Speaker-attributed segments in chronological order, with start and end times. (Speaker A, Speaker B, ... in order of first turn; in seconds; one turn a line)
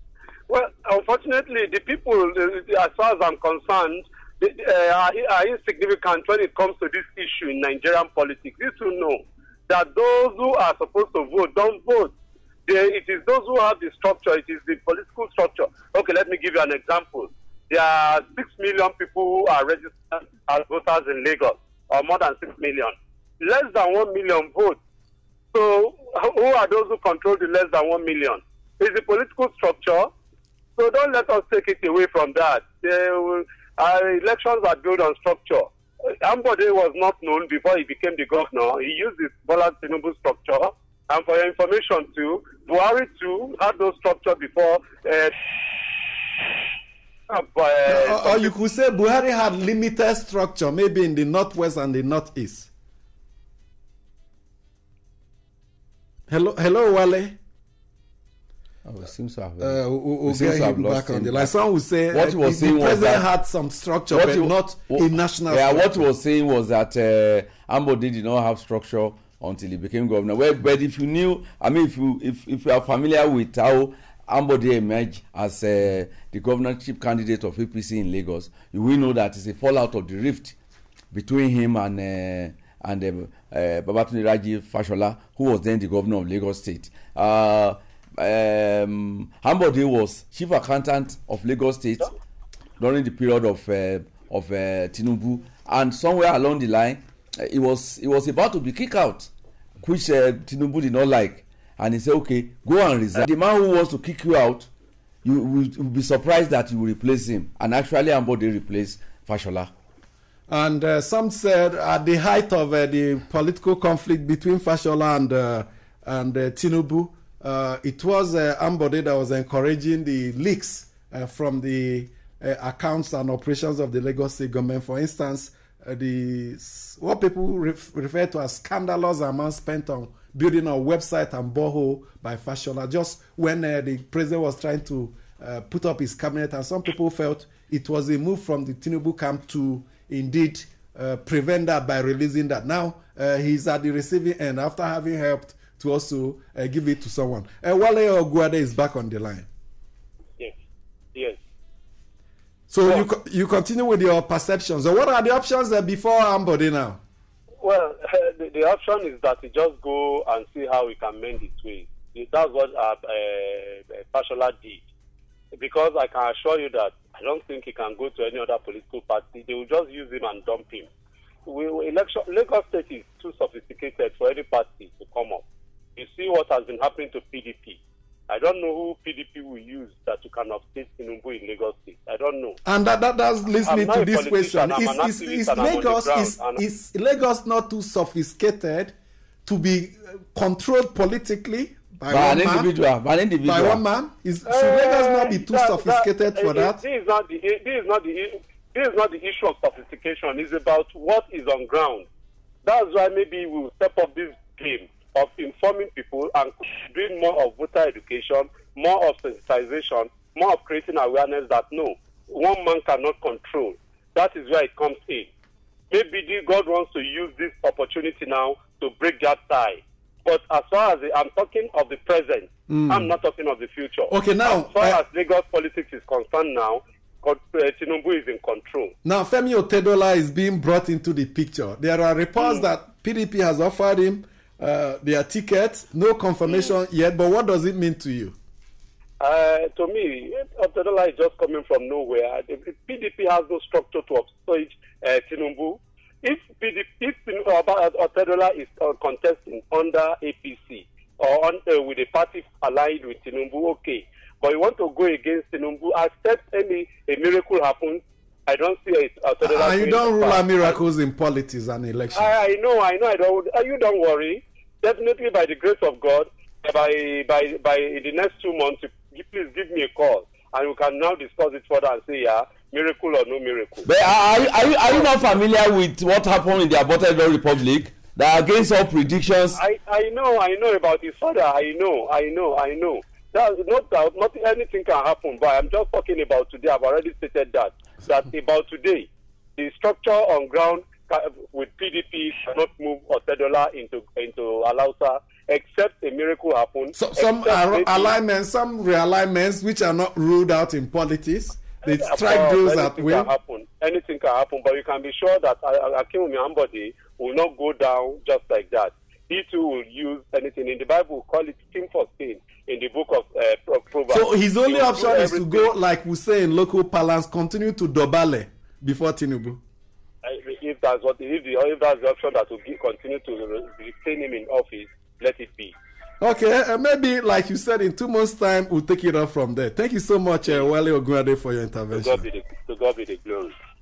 Speaker A: 0.5-12.1
Speaker A: 12.7-24.8
Speaker A: 25.5-30.1
Speaker A: 30.8-45.8
Speaker A: 47.3-48.5
Speaker B: 47.9-52.7
Speaker B: 56.3-57.4
Speaker C: 58.8-61.5
Speaker B: 59.6-66.0
Speaker C: 62.1-63.2
Speaker C: 64.1-80.5
Speaker C: 81.1-92.1
Speaker C: 92.8-104.7
Speaker C: 105.2-109.7
Speaker B: 110.5-149.5
Speaker B: 152.7-157.0
Speaker A: 157.6-164.8
Speaker A: 165.6-170.9
Speaker A: 171.4-175.4
Speaker A: 175.9-182.6
Speaker B: 182.6-192.7
Speaker A: 183.6-186.6
Speaker C: 192.1-193.8
Speaker B: 193.4-196.8
Speaker A: 194.5-202.1
Speaker A: 202.6-215.3
Speaker A: 215.9-228.9
Speaker B: 222.7-223.1
Speaker B: 224.1-225.0
Speaker B: 229.0-238.3
Speaker A: 239.2-260.8
Speaker B: 259.4-262.3
Speaker A: 262.1-273.9
Speaker C: 273.8-279.6
Speaker A: 279.6-298.1
Speaker B: 296.9-303.3
Speaker A: 301.9-315.7
Speaker B: 314.1-319.6
Speaker A: 320.2-325.7
Speaker B: 326.2-332.2
Speaker A: 331.9-333.5